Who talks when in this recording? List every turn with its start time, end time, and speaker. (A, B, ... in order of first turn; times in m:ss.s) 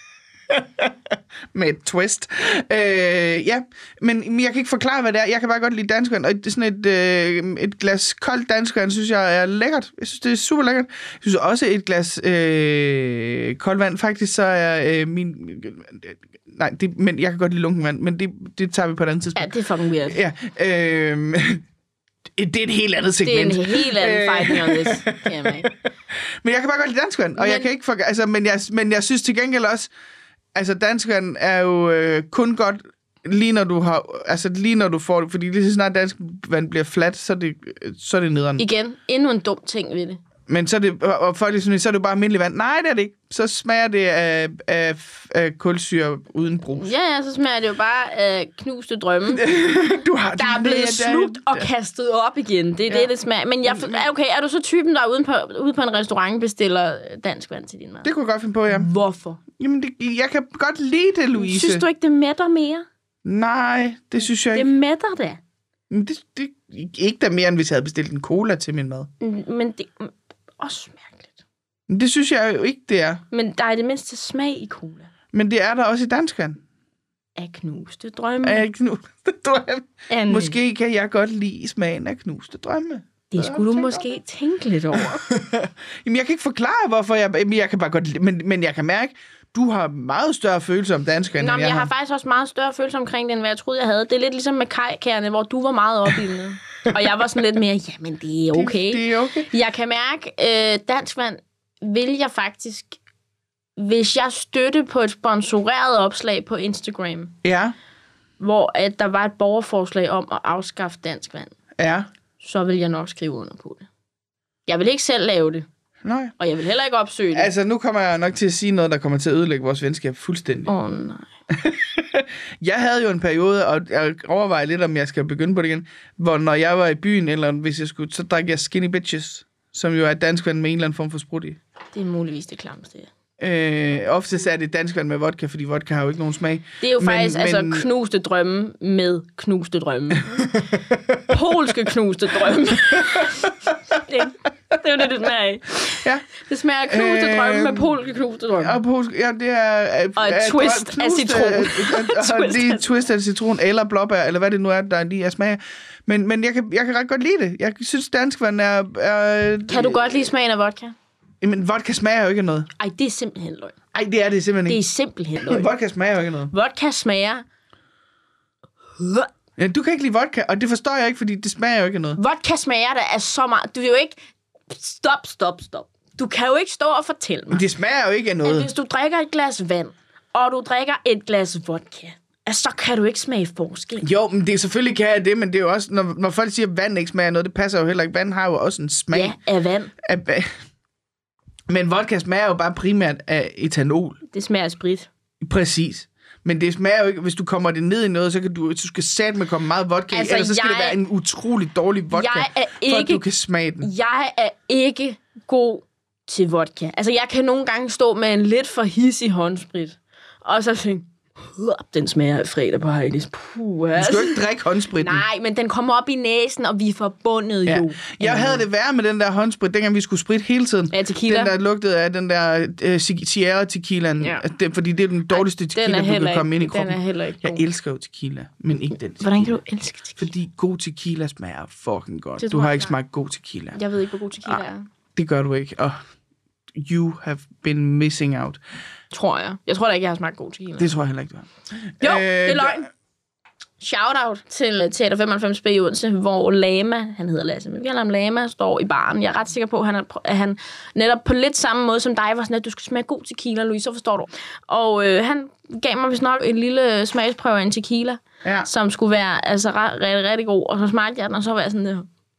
0:00.5-0:19.5 A
0:19.4-0:20.2 B
0:20.0-0:21.6 A
0:22.4-0:25.7 A
0:23.2-0:25.7 B
0:26.4-0:29.9 A
0:27.4-0:27.7 B
0:30.5-0:38.6 A
0:38.6-0:40.2 B
0:40.5-0:46.9 A
0:46.8-0:49.5 B
0:49.3-0:51.7 A
0:50.4-0:58.1 B
0:53.6-0:54.0 A
0:58.0-0:58.9 A
0:58.7-0:59.4 B
0:59.6-1:01.8 A
1:01.3-1:02.8 B
1:03.2-1:04.7 A
1:04.5-1:05.4 B
1:05.9-1:09.1 A
1:09.2-1:11.4 B
1:11.9-1:13.2 A
1:13.3-1:15.1 B
1:15.3-1:16.6 A
1:17.4-1:18.6 B
1:18.4-1:24.1 A
1:20.1-1:20.6 B
1:23.3-1:25.2 B
1:24.9-1:31.9 A
1:31.4-1:43.0 B
1:38.5-1:39.5 A
1:43.8-1:47.3 B
1:47.4-1:47.7 A
1:48.4-1:51.5 B
1:51.8-1:52.1 A
1:52.4-1:53.9 B
1:54.6-1:55.7 B
1:56.0-1:56.3 A
1:56.4-1:57.5 B
1:57.3-2:00.7 A
2:00.6-2:01.3 B
2:01.5-2:11.6 A
2:11.9-2:13.1 B
2:13.4-2:17.9 A
2:16.8-2:20.6 B
2:20.5-2:21.2 A
2:21.3-2:28.8 B
2:26.8-2:27.9 A
2:28.6-2:40.2 A
2:30.2-2:32.8 B
2:39.7-2:40.9 B
2:41.4-2:42.7 A
2:42.8-2:43.8 B
2:43.9-2:44.8 A
2:44.7-2:45.7 B
2:45.4-2:46.5 A
2:46.5-2:47.4 B
2:49.0-2:49.3 B
2:49.6-2:52.2 A
2:52.2-2:54.2 B
2:54.7-2:57.6 B
2:57.5-2:58.7 A
2:58.4-3:04.0 B
3:04.0-3:09.4 A
3:09.1-3:09.9 B
3:10.0-3:10.5 A
3:11.7-3:14.2 A
3:14.3-3:15.1 B
3:15.4-3:23.9 A
3:20.1-3:21.0 B
3:22.1-3:23.2 B
3:23.8-3:34.4 B
3:34.0-3:35.2 A
3:34.9-3:38.6 B
3:37.6-3:49.6 A
3:40.9-3:41.5 B
3:45.3-3:47.6 B
3:49.2-3:50.3 B
3:50.2-3:53.8 A
3:52.4-3:52.9 B
3:53.7-3:54.9 B
3:54.4-3:56.0 A
3:56.7-3:58.6 A
3:59.1-4:00.9 B
4:00.8-4:02.9 A
4:02.0-4:02.9 B
4:03.8-4:22.1 B